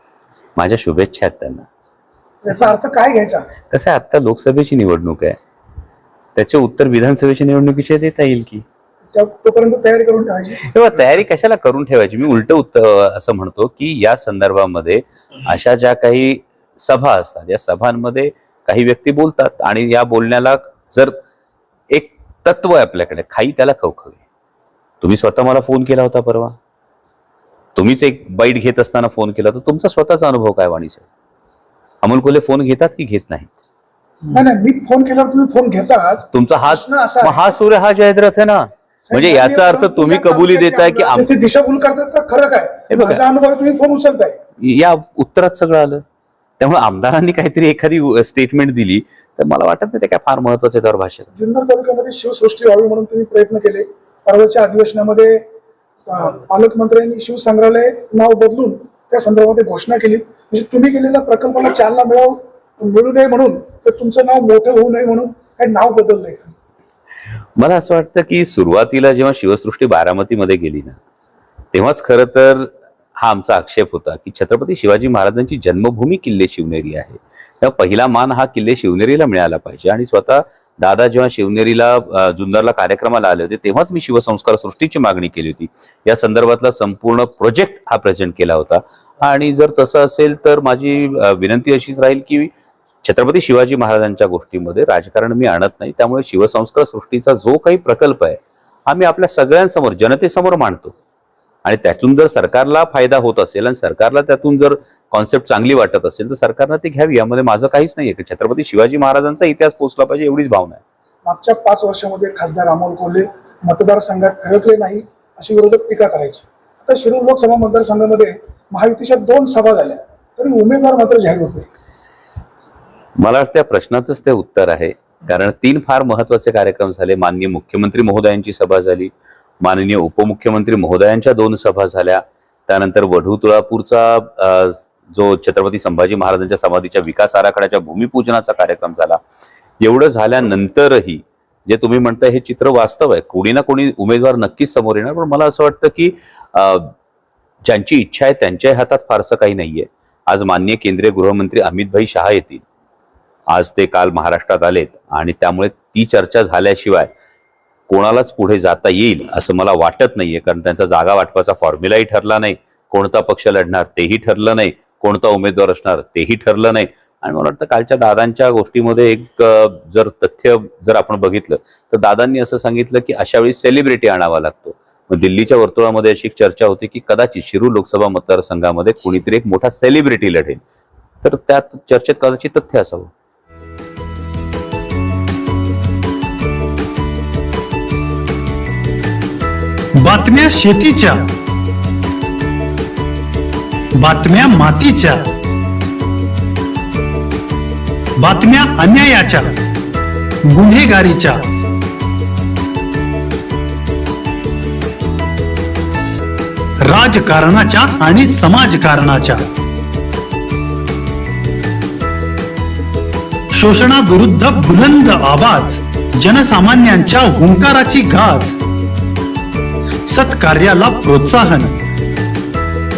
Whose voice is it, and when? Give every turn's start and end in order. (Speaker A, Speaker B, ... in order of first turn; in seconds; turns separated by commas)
Speaker A: 0.6-1.7, Speaker B: 2.4-3.5, Speaker A: 3.7-5.4, Speaker A: 6.3-8.6, Speaker B: 9.1-10.7, Speaker A: 10.6-21.2, Speaker A: 21.9-24.2, Speaker A: 25.0-26.6, Speaker A: 27.7-31.0, Speaker A: 32.0-33.5, Speaker B: 34.3-37.5, Speaker A: 36.3-41.3, Speaker B: 39.1-44.4, Speaker A: 42.9-43.2, Speaker A: 44.6-46.0, Speaker A: 46.6-51.3, Speaker B: 51.3-55.4, Speaker B: 56.0-66.5, Speaker A: 67.6-71.0, Speaker A: 71.7-92.5, Speaker A: 93.0-101.0, Speaker A: 101.6-110.8, Speaker B: 111.2-121.7, Speaker A: 123.2-139.2, Speaker A: 139.8-146.9, Speaker A: 147.6-152.6, Speaker A: 153.5-157.1, Speaker A: 157.9-180.6, Speaker A: 181.2-183.1, Speaker C: 190.0-191.2, Speaker C: 194.0-195.3, Speaker C: 198.2-199.5, Speaker C: 200.5-201.4, Speaker C: 206.9-209.4, Speaker C: 213.5-218.6, Speaker C: 220.1-221.7